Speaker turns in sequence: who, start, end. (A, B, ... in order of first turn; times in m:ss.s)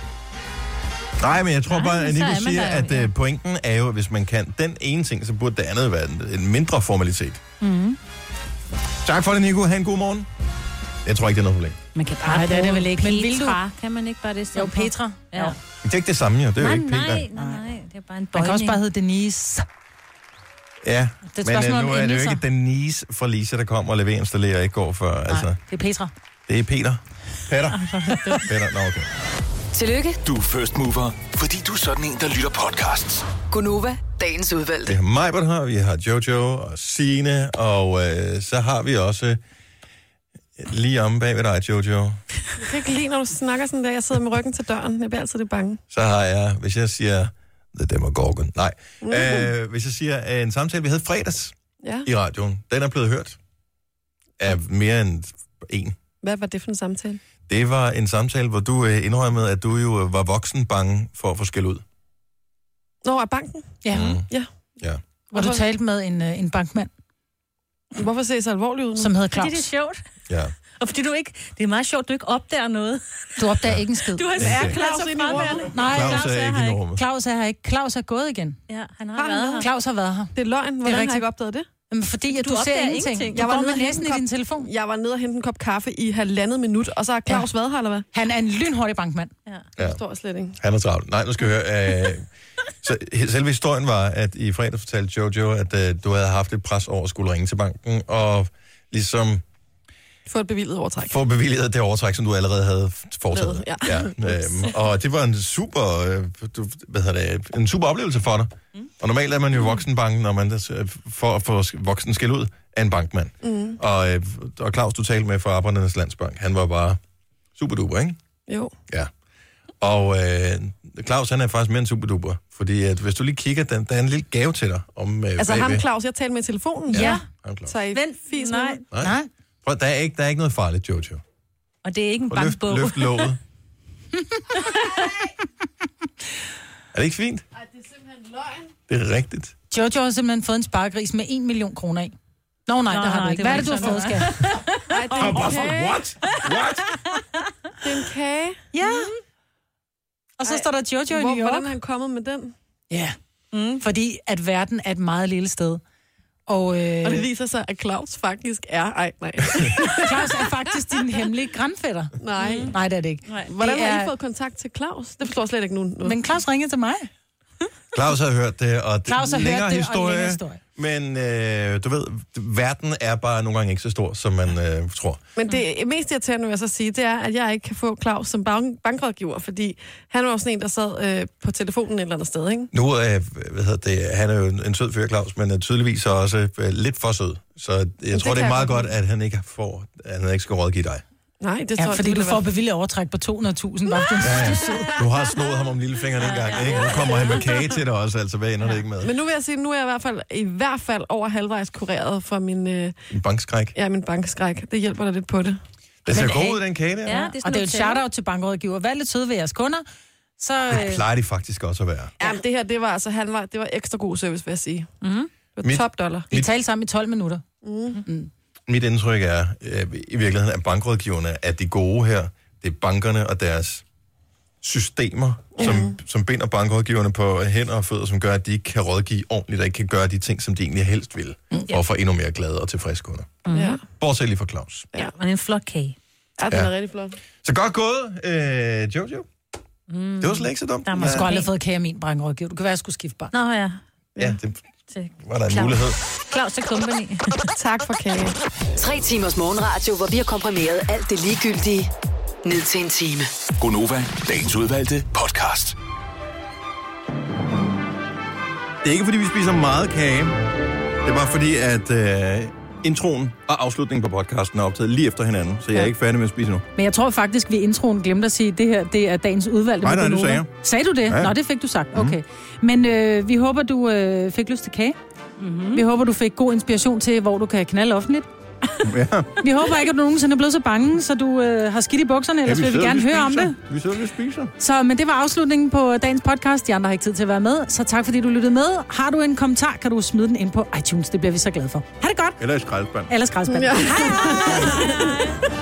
0:01.2-0:07.4 A
0:01.7-0:03.1 B
0:07.6-0:08.0 C
0:09.0-0:10.3 A
0:11.0-0:11.8 A
0:12.0-0:13.6 C
0:12.2-0:15.6 B
0:14.5-0:15.6 C
0:15.8-0:17.3 A
0:16.6-0:18.8 B
0:18.3-0:19.6 C
0:20.8-0:25.6 A
0:21.3-0:22.4 C
0:25.3-0:26.1 C
0:26.5-0:29.1 A
0:29.7-0:30.2 D
0:30.2-0:33.3 E
0:33.5-0:35.0 D
0:34.8-0:39.4 A
0:40.6-0:42.2 A
0:42.6-0:45.8 F
0:45.9-0:53.4 A
0:49.0-0:49.5 F
0:51.8-0:52.1 F
0:54.4-0:56.0 A
0:56.2-0:57.2 F
0:57.5-1:01.8 A
1:03.0-1:04.5 F
1:03.8-1:04.2 C
1:03.9-1:04.3 A
1:05.3-1:06.9 C
1:05.3-1:05.6 F
1:08.0-1:09.1 F
1:09.0-1:09.6 C
1:09.3-1:10.0 B
1:10.3-1:10.5 A
1:10.8-1:13.3 B
1:13.4-1:14.3 C
1:14.1-1:16.8 B
1:14.4-1:14.8 A
1:14.6-1:15.8 F
1:15.3-1:16.4 C
1:15.8-1:17.0 A
1:16.9-1:18.6 C
1:18.7-1:19.7 B
1:19.1-1:19.6 F
1:19.6-1:21.2 C
1:20.4-1:21.6 F
1:21.9-1:24.7 C
1:22.3-1:23.5 B
1:23.3-1:28.0 F
1:28.1-1:29.3 C
1:29.8-1:30.6 F
1:30.6-1:32.3 A
1:32.8-1:39.4 A
1:40.3-1:41.2 F
1:41.0-1:57.0 A
1:43.3-1:44.7 F
1:53.4-1:53.8 F
1:57.6-1:58.2 A
1:58.5-1:58.7 F
1:59.8-2:05.8 A
2:05.4-2:07.1 F
2:06.9-2:07.7 A
2:06.9-2:07.2 C
2:06.9-2:07.2 B
2:07.7-2:08.8 F
2:07.9-2:08.8 B
2:08.9-2:11.2 A
2:09.0-2:09.3 C
2:11.8-2:13.3 B
2:12.3-2:13.4 A
2:14.5-2:15.1 B
2:16.9-2:17.4 A
2:17.6-2:18.7 F
2:18.9-2:19.5 A
2:19.7-2:22.1 C
2:22.7-2:24.6 C
2:22.9-2:25.4 B
2:24.9-2:26.1 F
2:25.2-2:26.8 A
2:26.4-2:26.6 B
2:27.8-2:28.6 F
2:28.7-2:29.1 C
2:30.4-2:31.7 C
2:30.4-2:32.5 F
2:32.9-2:33.2 C
2:33.5-2:33.8 B
2:33.8-2:35.8 C
2:36.5-2:37.3 C
2:37.0-2:40.5 F
2:39.9-2:42.1 C
2:42.2-2:42.8 F
2:42.4-2:42.7 B
2:42.7-2:44.1 C
2:43.4-2:46.2 F
2:46.0-2:47.1 C
2:47.9-2:55.3 A
2:49.1-2:50.6 C
2:55.4-3:02.7 F
3:02.7-3:11.0 A
3:08.1-3:08.9 F
3:11.4-3:12.4 F
3:11.8-3:15.0 C
3:14.2-3:19.2 A
3:16.2-3:17.5 B
3:19.0-3:22.9 F
3:23.1-3:23.7 A
3:23.7-3:25.6 F
3:26.0-3:27.3 A
3:26.1-3:26.6 C
3:27.0-3:28.0 B
3:27.4-3:29.8 C
3:30.4-3:31.0 C
3:30.7-3:32.1 A
3:32.2-3:34.9 F
3:35.0-3:35.3 C
3:35.6-3:36.3 F
3:35.6-3:36.5 A
3:36.3-3:37.4 C
3:37.6-3:38.0 F
3:38.0-3:38.3 C
3:38.7-3:43.8 A
3:44.6-3:53.4 A
3:45.6-3:46.0 F
3:53.4-3:53.8 B
3:53.5-3:53.8 F
3:54.0-3:54.9 A
3:55.0-3:56.0 B
3:56.4-3:57.2 F
3:57.4-3:59.3 A
3:59.9-4:01.5 B
4:00.2-4:01.3 A
4:01.0-4:03.3 C
4:03.3-4:03.8 B
4:04.2-4:04.6 A
4:04.9-4:07.5 B
4:05.2-4:06.0 A
4:07.5-4:08.4 F
4:08.8-4:11.9 D
4:12.4-4:13.3 D
4:13.6-4:15.8 E
4:18.8-4:20.4 A
4:21.0-4:26.6 A
4:26.8-4:35.0 C
4:29.8-4:30.5 A
4:31.1-4:31.3 A
4:31.9-4:32.2 A
4:35.4-4:35.8 B
4:35.7-4:38.3 C
4:38.8-4:39.3 A
4:39.4-4:43.6 C
4:42.4-4:44.5 A
4:44.6-4:52.4 C
4:52.4-4:53.1 A
4:53.1-4:55.1 C
4:53.4-4:55.3 F
4:54.6-4:55.3 B